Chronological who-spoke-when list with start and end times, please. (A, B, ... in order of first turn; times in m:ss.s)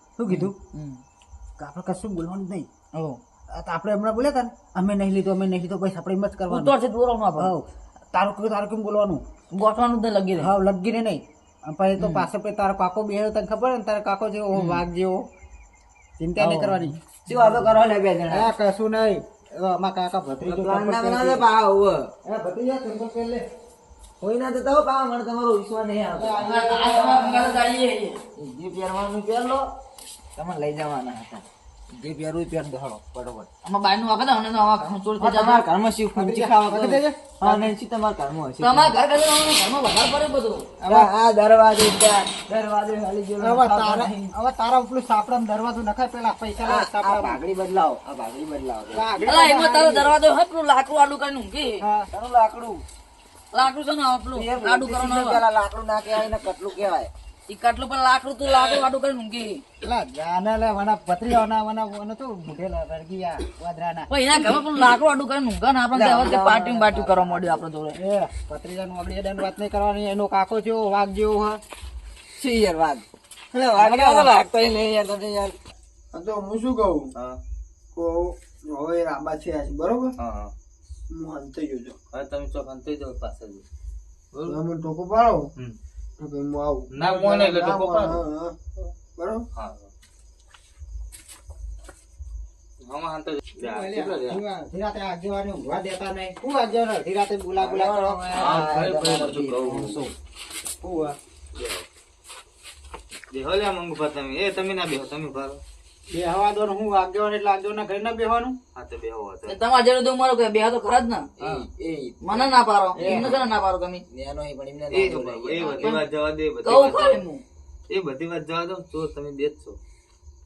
0:00.2-0:00.5 A
0:00.3-0:01.0 B
0:01.6-0:02.7 A
0:02.9-0:03.2 B
0:03.5-0:06.7 A
0:06.5-0:07.5 B
0:07.4-0:09.2 A
0:09.5-0:10.5 B
0:10.4-0:15.2 A
0:12.0-0:12.3 B
0:16.2-0:17.6 A
0:16.4-0:17.0 B
0:17.2-0:18.5 C
0:18.3-0:21.4 A
0:20.4-0:22.1 C
0:22.2-0:23.4 A
0:24.2-0:26.6 C
0:26.1-0:27.6 A
0:26.4-0:28.2 B
0:28.4-0:29.7 C
0:30.4-0:33.5 C
0:33.6-0:35.6 B
0:35.2-0:38.9 C
0:36.1-0:37.7 A
0:38.6-0:40.7 B
0:40.8-0:41.1 A
0:40.8-0:44.3 C
0:43.4-0:47.4 A
0:46.6-0:49.0 C
0:48.9-0:50.1 A
0:49.2-0:51.8 B
0:51.8-0:52.1 A
0:52.1-0:52.8 C
0:53.5-0:55.4 B
0:54.3-0:57.1 C
0:57.5-0:59.6 B
0:59.8-1:04.1 A
1:04.1-1:08.0 B
1:05.9-1:07.6 C
1:07.9-1:11.6 A
1:12.4-1:15.6 C
1:13.8-1:14.3 A
1:16.1-1:17.1 D
1:17.1-1:17.4 E
1:17.9-1:20.1 D
1:20.2-1:20.5 E
1:21.1-1:22.0 D
1:22.1-1:23.6 E
1:24.3-1:24.6 E
1:24.4-1:25.5 D
1:26.2-1:29.4 D
1:26.9-1:28.2 E
1:29.6-1:29.9 E
1:32.8-1:34.4 E
1:33.6-1:38.5 A
1:37.6-1:40.1 C
1:38.3-1:40.0 E
1:40.8-1:41.2 A
1:41.5-1:41.8 E
1:43.3-1:45.6 E
1:46.1-1:48.6 A
1:48.7-1:49.6 E
1:49.5-1:51.3 B
1:51.4-1:53.5 C
1:51.4-1:51.6 E
1:52.2-1:54.0 B
1:54.1-1:55.9 C
1:54.9-1:57.2 E
1:56.6-1:57.4 B
1:57.9-1:59.8 E